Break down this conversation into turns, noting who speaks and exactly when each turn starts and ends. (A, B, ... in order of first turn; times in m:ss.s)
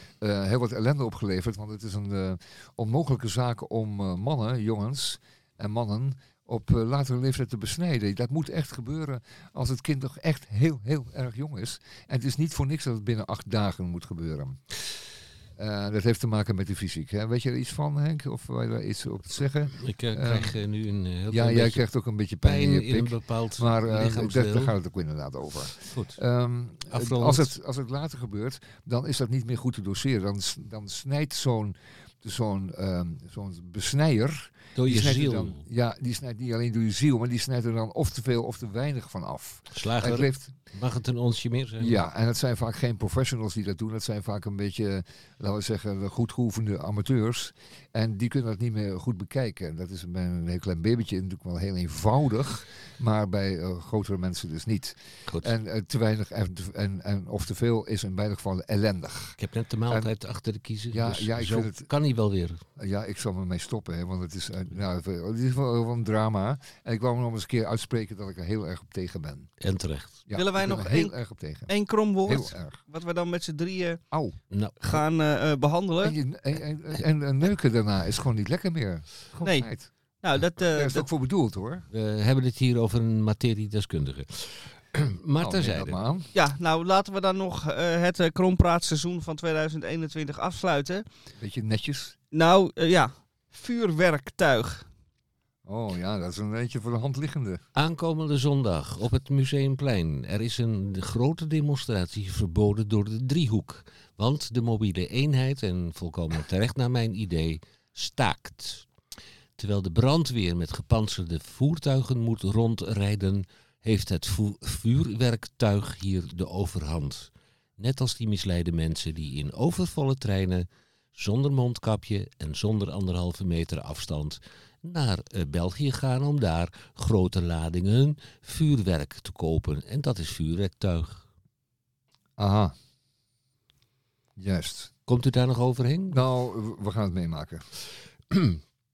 0:00.2-0:15.0 A
0:15.6-0:20.6 A
0:19.7-0:21.8 B
0:21.3-0:40.5 A
0:22.4-0:24.7 B
0:25.8-0:26.2 B
0:26.9-0:27.5 B
0:34.7-0:35.6 B
0:39.7-0:42.0 B
0:41.8-1:00.1 A
0:55.3-0:55.5 B
0:59.4-1:02.6 B
1:00.9-1:01.9 A
1:02.8-1:09.5 A
1:09.6-1:10.2 B
1:10.3-1:11.7 A
1:10.3-1:14.0 C
1:12.2-1:12.8 A
1:14.1-1:14.4 A
1:14.5-1:15.0 B
1:14.8-1:16.2 C
1:16.0-1:19.9 A
1:19.4-1:19.7 C
1:20.2-1:21.1 C
1:20.5-1:21.8 A
1:21.9-1:26.0 B
1:25.4-1:26.3 A
1:26.3-1:31.0 C
1:31.4-1:32.2 A
1:32.3-1:34.9 C
1:35.6-1:37.6 A
1:37.7-1:48.9 B
1:49.6-2:11.3 B
2:12.4-2:12.7 A
2:14.4-2:14.9 A
2:15.1-2:16.2 B
2:16.1-2:17.7 A
2:18.3-2:18.6 B